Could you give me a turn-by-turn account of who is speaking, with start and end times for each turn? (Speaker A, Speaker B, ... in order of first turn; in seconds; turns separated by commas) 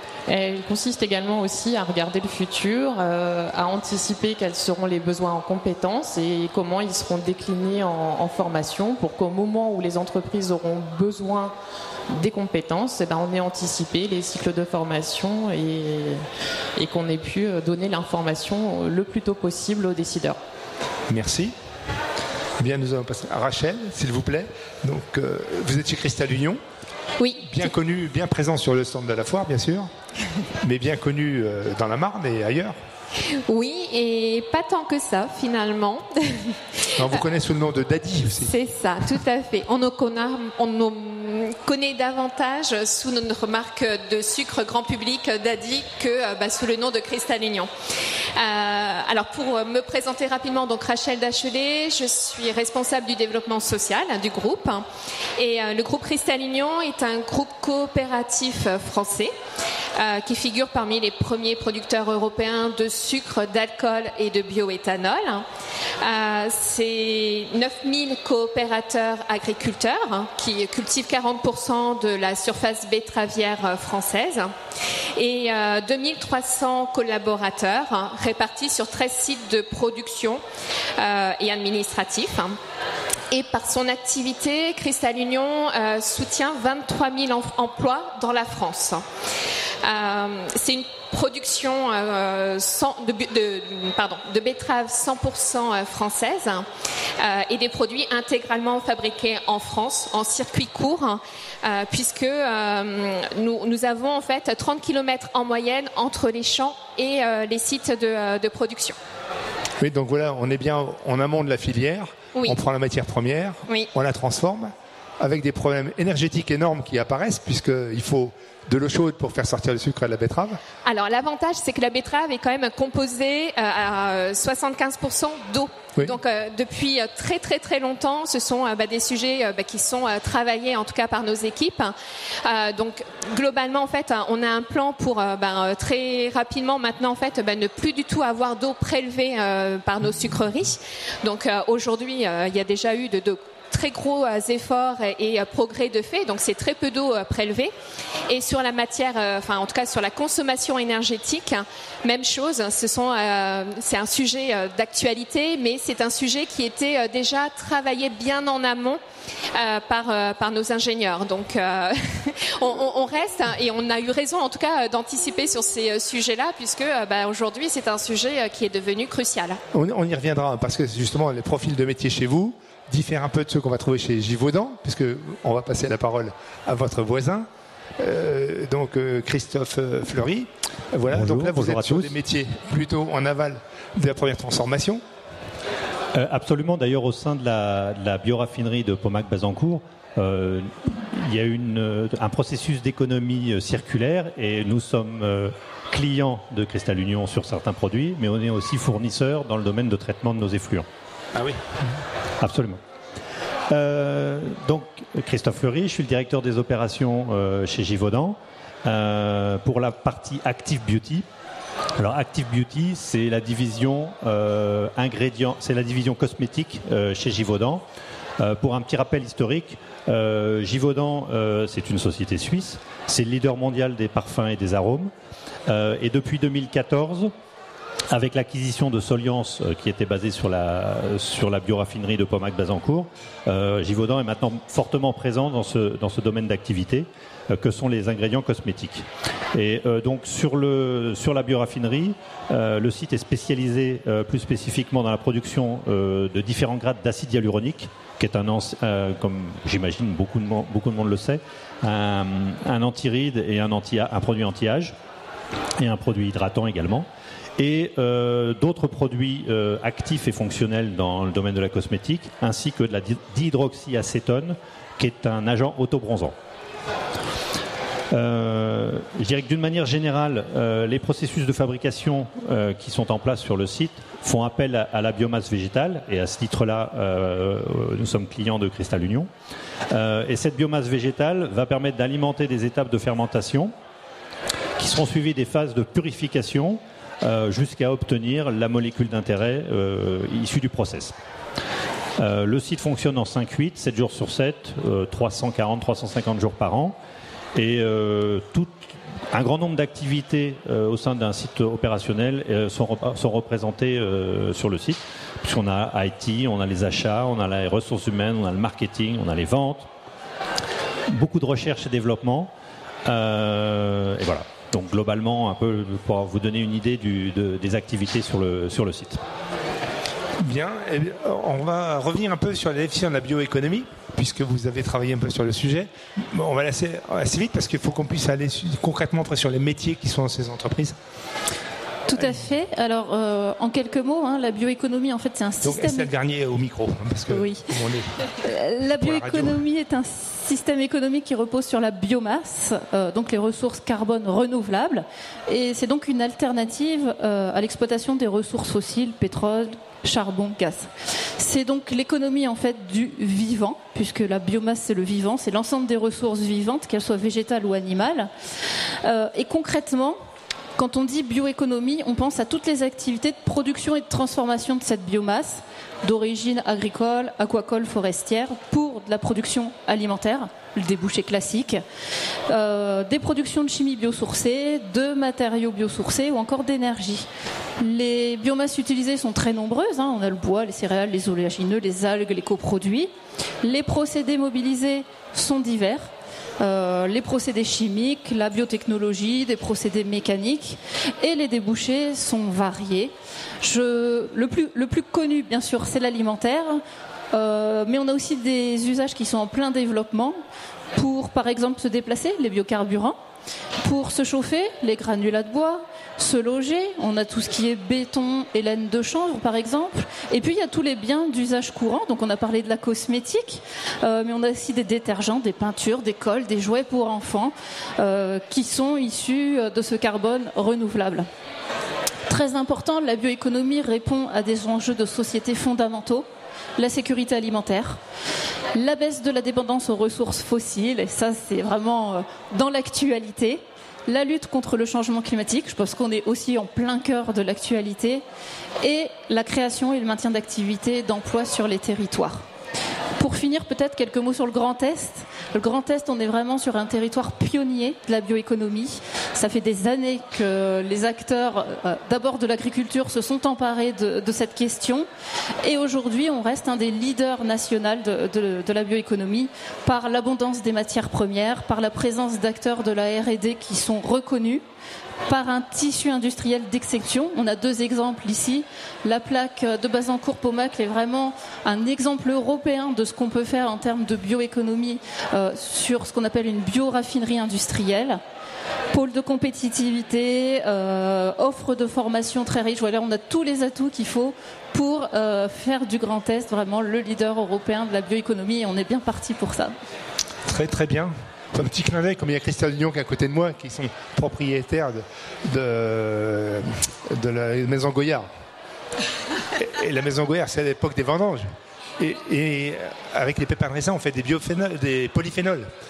Speaker A: 0.3-11.5, Speaker A: 12.1-16.2, Speaker A: 16.8-20.4, Speaker B: 21.1-21.5, Speaker B: 22.6-26.6, Speaker C: 27.2-27.6, Speaker B: 27.4-29.9, Speaker B: 30.6-32.8, Speaker C: 33.3-36.5, Speaker B: 37.0-38.5, Speaker C: 38.4-47.7, Speaker C: 48.3-54.8, Speaker C: 55.4-59.3, Speaker C: 60.0-65.4, Speaker C: 66.0-74.5, Speaker C: 75.2-80.4, Speaker C: 81.0-82.6, Speaker C: 83.3-89.0, Speaker C: 89.8-96.7, Speaker C: 97.2-109.0, Speaker B: 109.8-120.6, Speaker C: 120.8-147.7, Speaker C: 148.3-159.0, Speaker C: 159.5-169.6, Speaker B: 169.7-185.0, Speaker D: 181.1-182.1, Speaker D: 186.1-200.9, Speaker B: 201.3-201.7, Speaker D: 202.4-202.8, Speaker D: 203.7-211.2, Speaker D: 212.0-217.8, Speaker D: 218.4-225.1, Speaker D: 225.7-227.3, Speaker D: 228.1-254.9, Speaker D: 255.8-257.1, Speaker D: 257.6-266.3, Speaker D: 268.1-279.3, Speaker D: 279.9-283.7, Speaker D: 284.8-291.1, Speaker D: 292.2-297.0, Speaker D: 297.6-298.7, Speaker D: 299.3-309.9, Speaker D: 311.1-312.5, Speaker D: 313.1-319.2, Speaker B: 320.4-331.0, Speaker E: 332.1-336.1, Speaker B: 335.6-338.1, Speaker E: 337.3-337.6, Speaker E: 338.4-358.3, Speaker B: 339.0-339.6, Speaker E: 359.0-360.2, Speaker E: 360.8-371.8, Speaker E: 372.5-377.2, Speaker E: 377.8-383.1, Speaker E: 383.6-386.1, Speaker E: 386.6-396.8, Speaker E: 397.3-400.4, Speaker E: 400.9-403.2, Speaker E: 403.8-421.3, Speaker E: 422.3-426.2, Speaker E: 426.8-428.0, Speaker E: 428.7-438.2, Speaker E: 438.8-442.4, Speaker E: 443.2-455.1, Speaker E: 455.6-464.6, Speaker E: 465.3-478.2, Speaker E: 478.9-489.7, Speaker B: 490.4-498.3, Speaker B: 499.6-505.7